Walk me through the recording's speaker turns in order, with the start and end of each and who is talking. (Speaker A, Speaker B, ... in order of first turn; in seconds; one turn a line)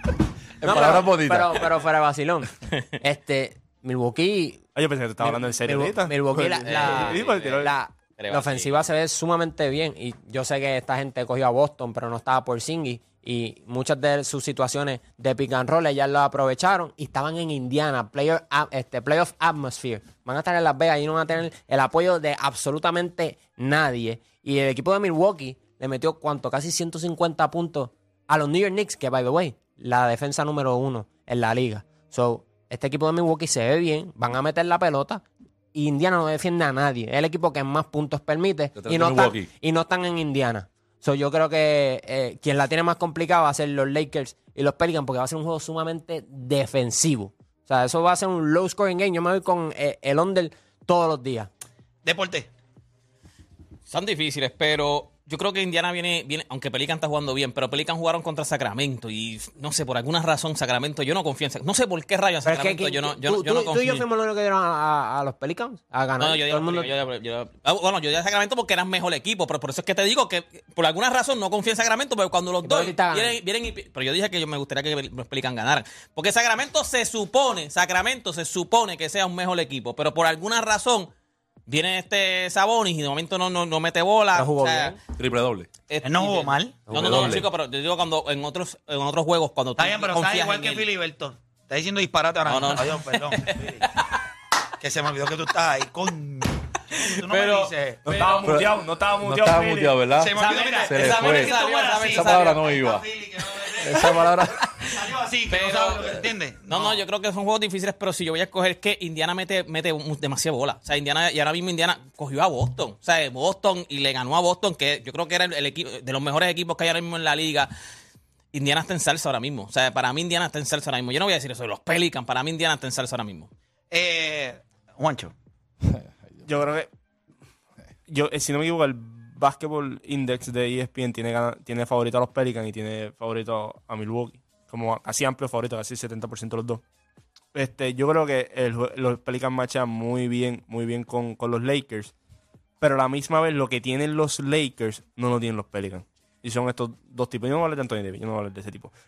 Speaker A: 0.6-1.6
Speaker B: 0.6-4.6
Speaker C: 4.8-7.8
Speaker B: 5.2-51.5
Speaker D: 6.5-8.9
Speaker A: 38.8-39.5
Speaker E: 52.0-52.5
Speaker D: 53.9-64.1
Speaker B: 62.4-66.9
Speaker D: 66.2-81.1
Speaker B: 72.6-73.4
Speaker D: 81.7-85.0
Speaker B: 84.3-85.0
Speaker A: 85.2-85.7
Speaker D: 85.9-90.9
Speaker E: 86.0-86.9
Speaker A: 86.9-87.5
Speaker E: 89.8-93.9
Speaker D: 92.5-94.2
Speaker E: 94.8-98.3
Speaker D: 96.9-98.6
Speaker C: 98.1-100.0
Speaker A: 98.4-101.6
Speaker E: 100.2-104.2
Speaker D: 100.3-102.7
Speaker A: 102.1-103.0
Speaker A: 103.8-104.6
Speaker D: 104.8-117.7
Speaker E: 104.9-107.0
Speaker D: 118.5-123.5
Speaker E: 123.9-125.3
Speaker C: 126.5-126.9
Speaker C: 128.1-136.8
Speaker C: 137.5-142.1
Speaker C: 142.8-148.9